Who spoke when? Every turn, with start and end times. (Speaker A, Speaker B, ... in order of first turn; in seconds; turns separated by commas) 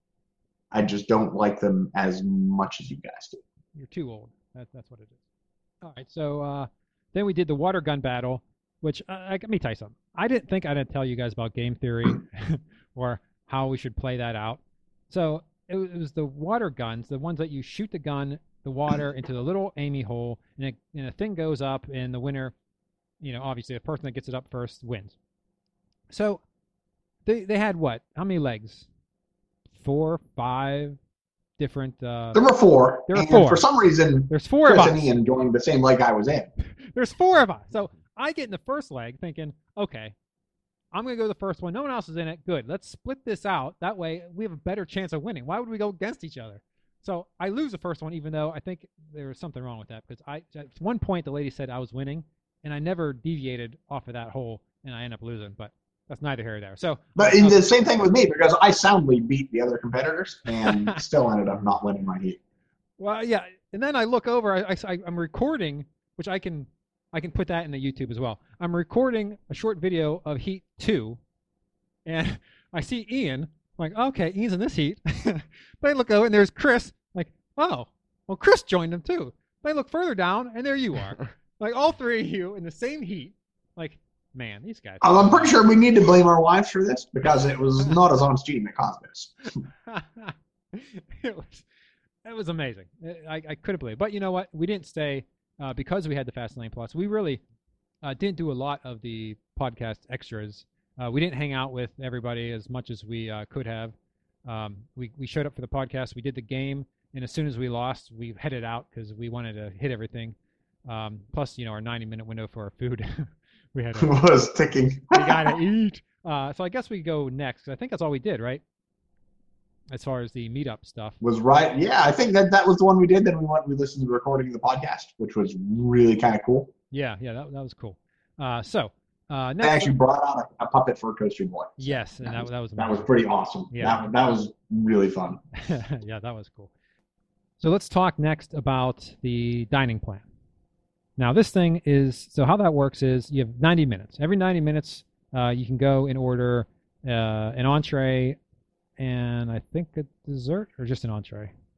Speaker A: 0.7-3.4, Speaker B: 3.8-5.2, Speaker B: 5.8-22.5, Speaker B: 23.2-25.2, Speaker B: 26.1-26.4, Speaker B: 27.2-28.9, Speaker B: 29.8-31.0, Speaker B: 31.6-32.5, Speaker A: 32.3-36.5, Speaker B: 33.1-33.6, Speaker B: 34.3-35.1, Speaker B: 36.9-40.1, Speaker B: 40.9-57.7, Speaker A: 57.2-62.4, Speaker B: 60.6-61.0, Speaker B: 63.0-71.2, Speaker B: 72.1-85.6, Speaker A: 85.0-89.3, Speaker B: 89.9-91.7, Speaker B: 92.2-97.4, Speaker B: 98.0-114.2, Speaker A: 114.0-115.6, Speaker B: 115.1-118.6, Speaker B: 119.9-121.2, Speaker A: 121.2-126.7, Speaker B: 126.9-129.9, Speaker A: 129.6-135.4, Speaker B: 131.8-133.1, Speaker B: 133.7-134.0, Speaker B: 135.6-136.7, Speaker B: 137.6-140.2, Speaker B: 141.2-148.4, Speaker B: 149.0-151.5